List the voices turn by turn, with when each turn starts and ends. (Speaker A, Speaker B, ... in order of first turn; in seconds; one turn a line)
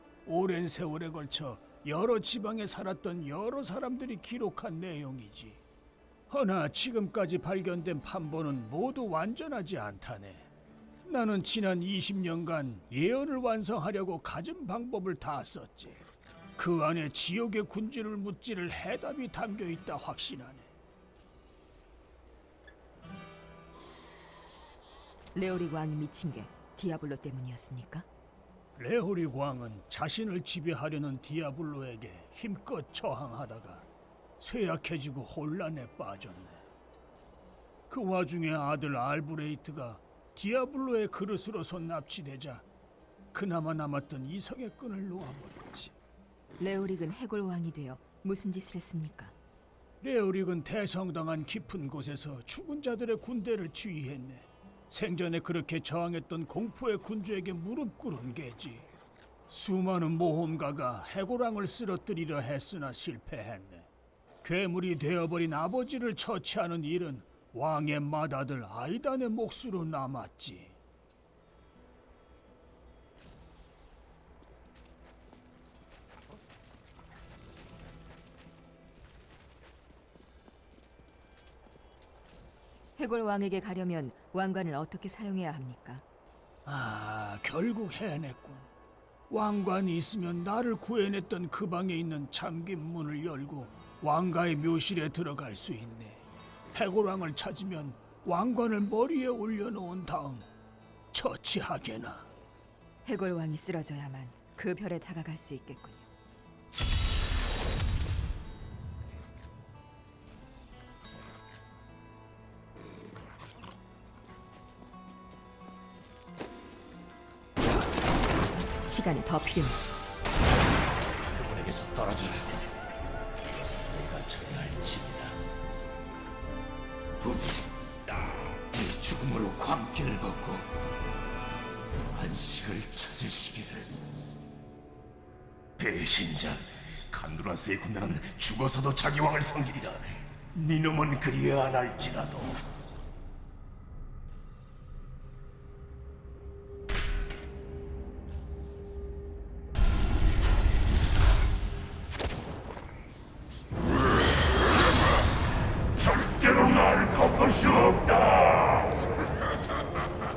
Speaker A: 0.2-5.6
Speaker A: 6.3-10.5
Speaker A: 11.0-16.0
Speaker A: 16.6-20.7
Speaker B: 25.3-28.1
Speaker A: 28.8-33.9
Speaker A: 34.4-36.6
Speaker A: 37.9-42.7
Speaker A: 43.3-45.9
Speaker B: 46.6-49.3
Speaker A: 50.0-58.9
Speaker A: 59.5-63.9
Speaker A: 64.4-70.8
Speaker B: 83.0-86.0
Speaker A: 86.7-88.7
Speaker A: 89.3-100.5
Speaker A: 101.1-102.3
Speaker B: 103.0-106.1
Speaker B: 118.9-119.8
Speaker C: 121.3-122.7
Speaker C: 123.9-125.3
Speaker C: 127.2-127.5
Speaker C: 128.6-130.6
Speaker C: 132.1-133.9
Speaker C: 135.8-142.6
Speaker C: 156.4-158.2